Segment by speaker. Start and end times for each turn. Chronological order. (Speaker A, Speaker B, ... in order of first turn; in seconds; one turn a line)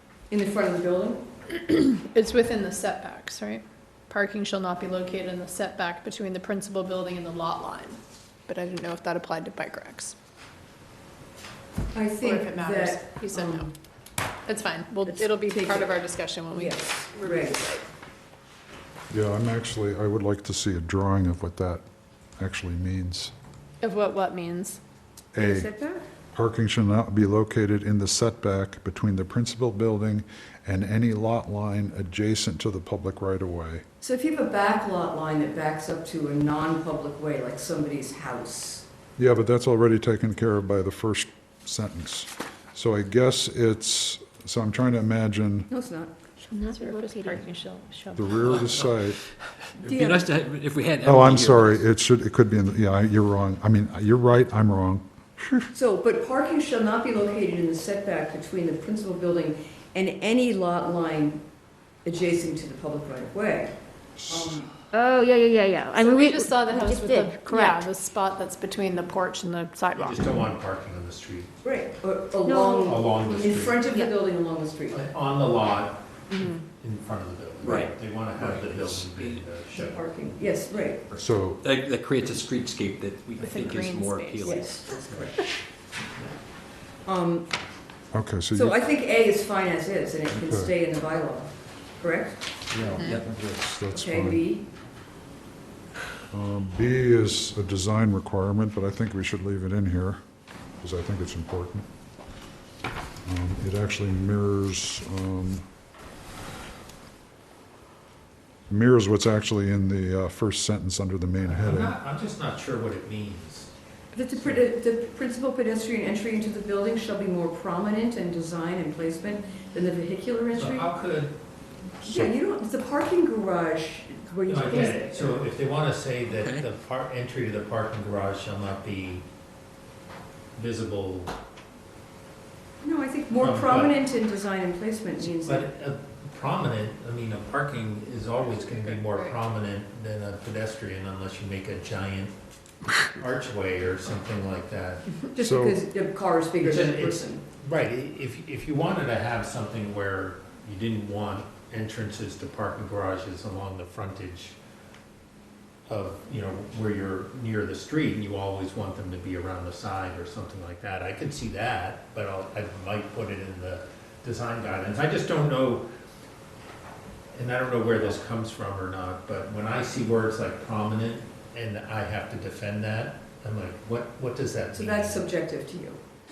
Speaker A: 0.3-1.2
Speaker B: 1.7-10.2
Speaker A: 11.9-13.7
Speaker B: 12.2-13.7
Speaker B: 14.5-17.9
Speaker A: 15.1-16.0
Speaker A: 16.5-17.6
Speaker C: 19.1-21.8
Speaker C: 22.4-23.3
Speaker B: 23.8-24.8
Speaker C: 25.3-25.7
Speaker A: 25.4-26.0
Speaker C: 26.3-33.8
Speaker A: 34.0-38.8
Speaker C: 39.2-45.7
Speaker A: 45.7-46.1
Speaker D: 46.4-47.7
Speaker B: 46.7-48.3
Speaker C: 48.1-49.2
Speaker E: 48.3-48.9
Speaker E: 49.6-51.8
Speaker A: 49.8-50.3
Speaker C: 51.0-55.7
Speaker A: 55.7-61.4
Speaker A: 62.0-63.7
Speaker C: 64.2-64.6
Speaker A: 64.3-64.7
Speaker D: 64.9-67.9
Speaker B: 66.0-70.5
Speaker F: 70.0-71.5
Speaker A: 71.6-75.0
Speaker D: 72.5-73.0
Speaker F: 72.8-73.9
Speaker F: 74.9-80.1
Speaker E: 77.6-79.5
Speaker A: 79.7-81.0
Speaker E: 81.1-85.3
Speaker C: 81.1-81.6
Speaker B: 83.4-84.7
Speaker A: 84.4-85.4
Speaker A: 87.0-87.5
Speaker C: 88.1-88.8
Speaker A: 88.5-92.4
Speaker C: 90.3-90.7
Speaker C: 92.7-94.5
Speaker A: 93.9-94.7
Speaker C: 96.3-100.2
Speaker C: 100.8-101.9
Speaker C: 103.2-105.7
Speaker C: 108.7-112.0
Speaker F: 111.4-113.7
Speaker A: 114.1-120.9
Speaker F: 114.4-114.6
Speaker F: 120.5-121.3
Speaker A: 122.0-125.5
Speaker C: 122.0-122.3
Speaker F: 124.5-129.2
Speaker E: 126.3-126.7
Speaker F: 130.5-131.3
Speaker A: 132.8-135.7
Speaker F: 133.4-134.0
Speaker F: 135.2-142.3
Speaker F: 143.0-145.2
Speaker A: 145.3-147.4
Speaker C: 145.4-145.8
Speaker F: 146.6-154.6
Speaker F: 155.9-165.8
Speaker F: 167.3-175.3
Speaker A: 174.7-176.0